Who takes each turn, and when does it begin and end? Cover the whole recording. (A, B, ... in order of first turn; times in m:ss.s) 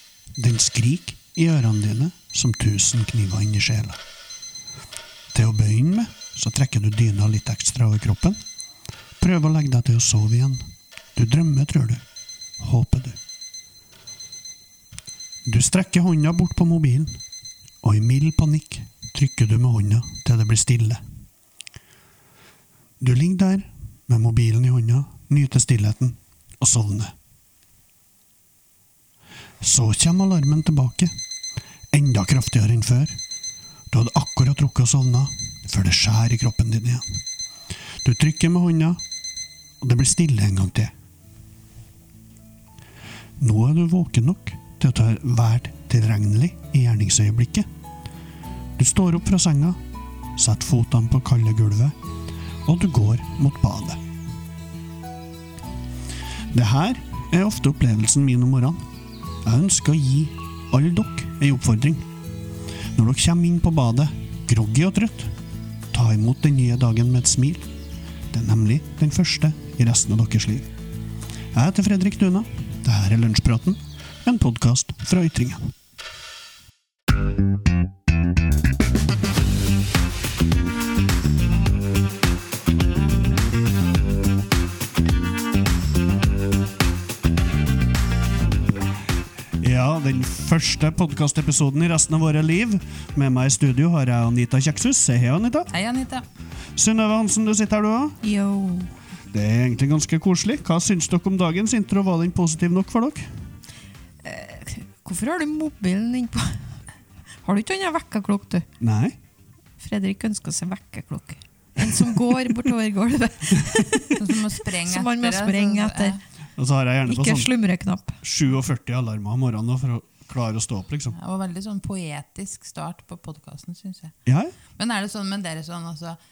0:00.4-0:04.0 A
0:05.3-0:08.4 A
0:09.2-0:12.0 A
0:12.6-0:13.2 A
0:15.4-0:17.2 A
0:17.8-0:21.0 A
0:23.0-0:27.1 A
0:29.6-0:31.1 A
0:31.9-0:33.2 A
0:33.9-0:37.2 A
0:38.0-0:39.0 A
0:39.8-0:40.9 A
0:43.4-0:47.7 A
0:48.8-0:49.8 A
0:50.3-0:52.0 A
0:52.6-0:54.0 A
0:56.5-0:58.8 A
0:59.4-1:02.1 A
1:02.9-1:05.3 A
1:05.9-1:07.7 A
1:08.3-1:10.7 A
1:11.5-1:15.7 A
1:29.6-1:35.7 A
1:35.7-1:36.2 B
1:36.8-1:38.2 A
1:38.2-1:38.9 C
1:39.3-1:43.3 A
1:44.2-1:46.7 C
1:47.4-1:48.6 C
1:48.8-1:49.2 A
1:49.8-1:56.2 C
1:54.2-1:56.2 B
1:56.6-1:57.5 A
1:57.0-1:58.2 C
1:58.2-2:01.1 A
2:01.1-2:04.1 B
2:04.2-2:04.5 A
2:04.8-2:06.2 B